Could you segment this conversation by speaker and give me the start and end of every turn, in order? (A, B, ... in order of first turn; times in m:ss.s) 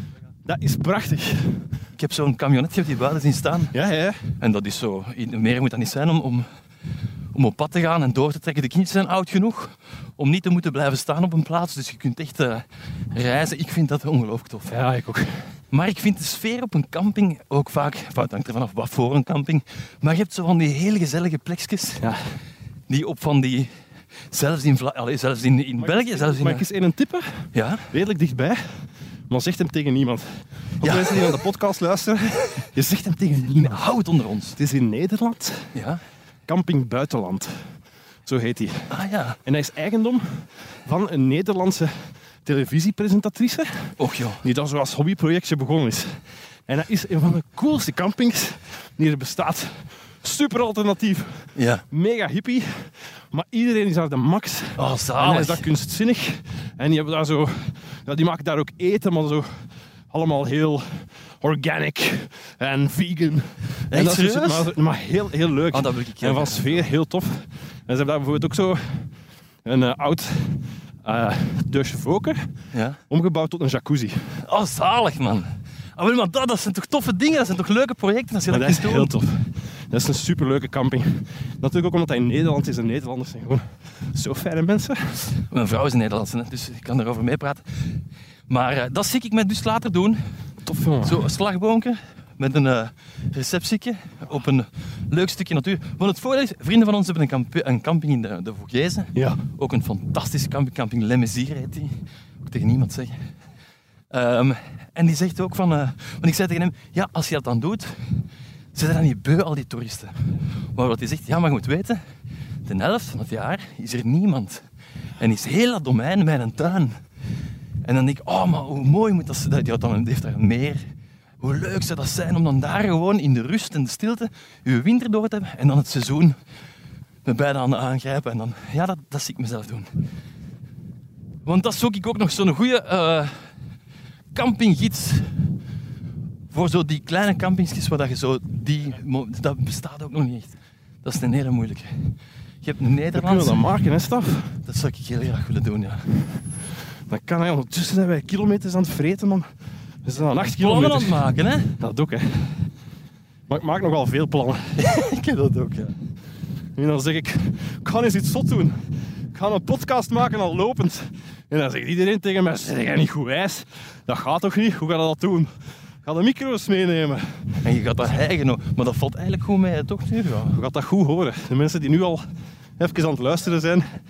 0:00.4-0:01.6 A
0:02.0-0:03.7 B
0:03.7-0:04.3 A
0:04.4-0:06.5 B
0:07.3-0:14.7 B
0:14.7-0:15.4 A
0:15.7-0:22.0 B
0:22.9-0:23.7 B
0:24.3-0:26.6 B
0:25.8-0:30.3 A
0:27.5-0:27.9 B
0:30.8-0:33.8 A
0:30.8-0:31.4 B
0:33.6-0:34.6 B
0:34.6-0:35.7 A
0:35.7-0:36.0 B
0:36.5-0:37.6 A
0:38.2-0:38.9 A
0:38.9-0:39.4 B
0:39.4-0:59.5 A
0:44.0-0:44.4 B
0:51.6-0:51.8 B
0:54.8-0:55.6 B
1:00.1-1:09.1 A
1:03.9-1:04.7 B
1:05.7-1:06.9 B
1:09.6-1:12.5 A
1:12.7-1:13.0 B
1:13.1-1:14.3 A
1:14.4-1:19.1 B
1:18.5-1:25.2 A
1:25.4-1:28.0 B
1:28.5-1:30.2 B
1:30.6-1:31.3 A
1:31.0-1:43.2 B
1:44.1-1:50.2 B
1:50.7-1:52.0 B
1:52.6-1:54.6 B
1:55.2-1:57.0 B
1:57.8-2:00.8 B
2:01.4-2:06.4 B
2:07.2-2:09.9 B
2:11.4-2:13.5 B
2:14.3-2:15.5 B
2:16.5-2:23.6 B
2:23.1-2:24.6 A
2:24.6-2:26.1 B
2:27.1-2:29.5 A
2:30.0-2:31.2 A
2:30.4-2:31.7 B
2:31.7-2:32.7 A
2:33.5-2:34.7 A
2:34.8-2:35.9 B
2:36.8-2:45.5 A
2:46.0-2:47.5 A
2:47.6-2:50.6 B
2:50.5-2:52.3 A
2:52.8-2:53.8 A